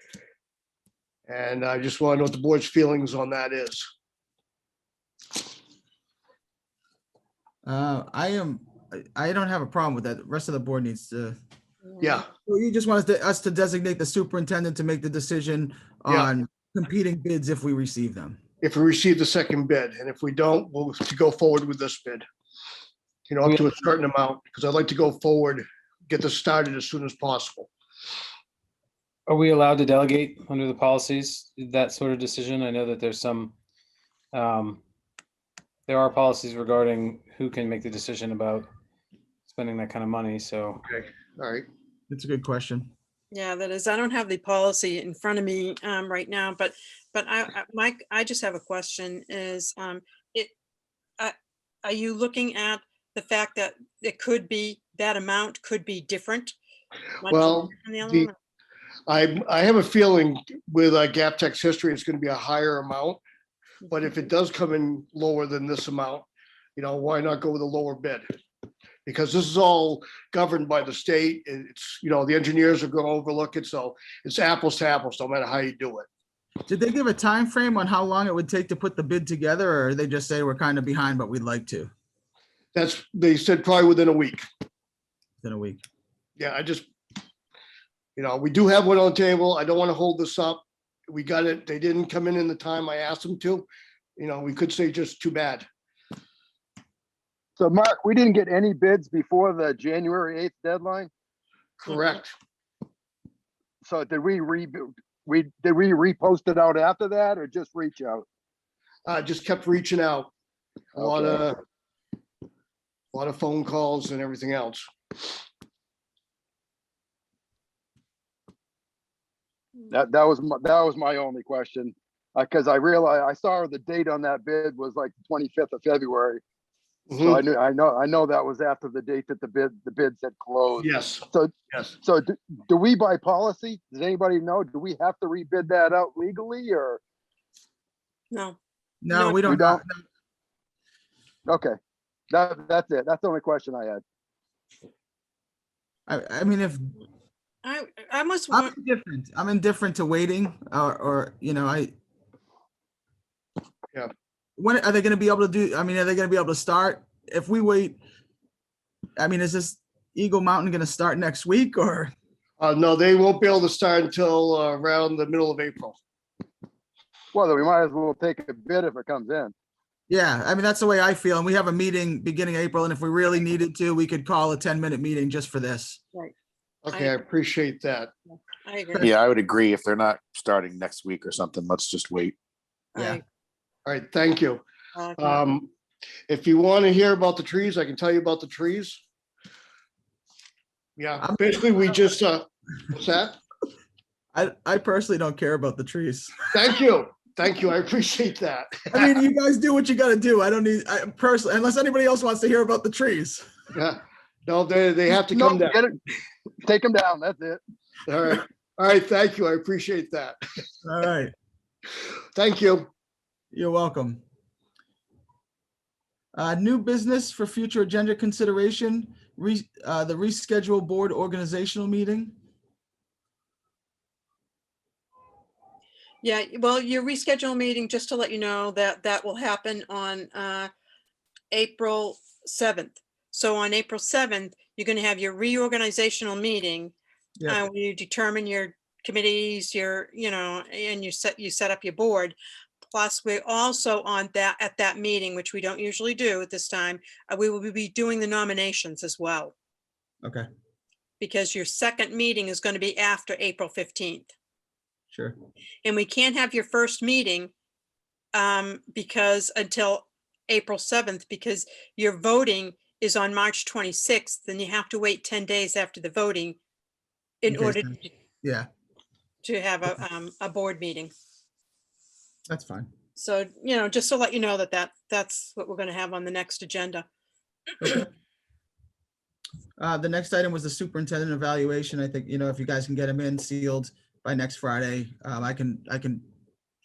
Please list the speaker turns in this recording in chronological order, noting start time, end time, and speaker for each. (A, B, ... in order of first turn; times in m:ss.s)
0:01.3-0:03.8 A
0:07.6-0:11.4 B
0:11.8-0:12.2 C
0:12.4-0:18.4 B
0:18.6-0:22.2 A
0:23.3-0:27.7 A
0:29.3-0:33.6 D
0:34.3-0:34.8 D
0:35.9-0:38.7 D
0:39.4-0:40.8 D
0:40.8-0:41.6 A
0:42.1-0:42.9 B
0:43.3-0:50.5 C
0:51.2-0:56.5 C
0:57.2-0:58.3 C
0:57.3-0:58.3 A
0:59.1-1:03.2 A
1:03.9-1:08.2 A
1:09.0-1:16.0 A
1:16.7-1:21.9 B
1:22.7-1:24.4 A
1:25.4-1:25.8 B
1:26.4-1:26.9 A
1:28.2-1:35.6 A
1:37.6-1:41.1 E
1:41.8-1:42.3 A
1:43.8-1:48.2 E
1:49.0-1:50.3 A
1:50.9-1:51.6 A
1:51.0-1:51.4 E
1:53.1-1:54.8 A
1:59.9-2:06.4 E
2:07.1-2:07.4 A
2:07.2-2:17.0 E
2:10.8-2:12.0 A
2:18.3-2:18.6 C
2:19.0-2:20.0 B
2:19.1-2:19.4 C
2:19.4-2:19.8 E
2:21.5-2:21.8 E
2:22.3-2:24.0 E
2:26.1-2:26.9 B
2:27.6-2:28.7 C
2:28.5-2:31.9 B
2:34.6-2:38.0 B
2:39.2-2:42.1 B
2:42.6-2:46.0 A
2:47.3-2:49.5 E
2:50.1-2:56.0 B
2:56.8-2:58.1 A
2:56.9-2:57.2 C
2:58.3-2:59.1 C
2:59.0-3:02.4 F
3:02.9-3:03.2 C
3:03.8-3:04.6 A
3:05.0-3:05.5 C
3:05.2-3:05.7 A
3:06.3-3:09.0 A
3:11.0-3:13.4 A
3:14.3-3:16.4 B
3:16.5-3:19.2 A
3:18.9-3:23.4 B
3:23.7-3:25.8 A
3:25.3-3:26.0 E
3:26.6-3:27.6 E
3:28.1-3:30.4 A
3:30.8-3:31.3 B
3:32.3-3:32.9 A
3:33.5-3:34.2 B
3:36.3-3:42.3 B
3:46.2-3:50.7 C
3:51.5-3:56.9 C
3:57.4-4:02.4 C
4:02.9-4:09.5 C
4:11.2-4:14.3 C
4:15.8-4:17.5 C
4:18.3-4:26.6 C
4:27.4-4:28.1 C
4:27.5-4:28.7 B
4:29.4-4:31.1 C
4:32.5-4:32.9 B
4:33.2-4:37.0 C
4:37.8-4:38.1 B
4:39.8-4:46.2 B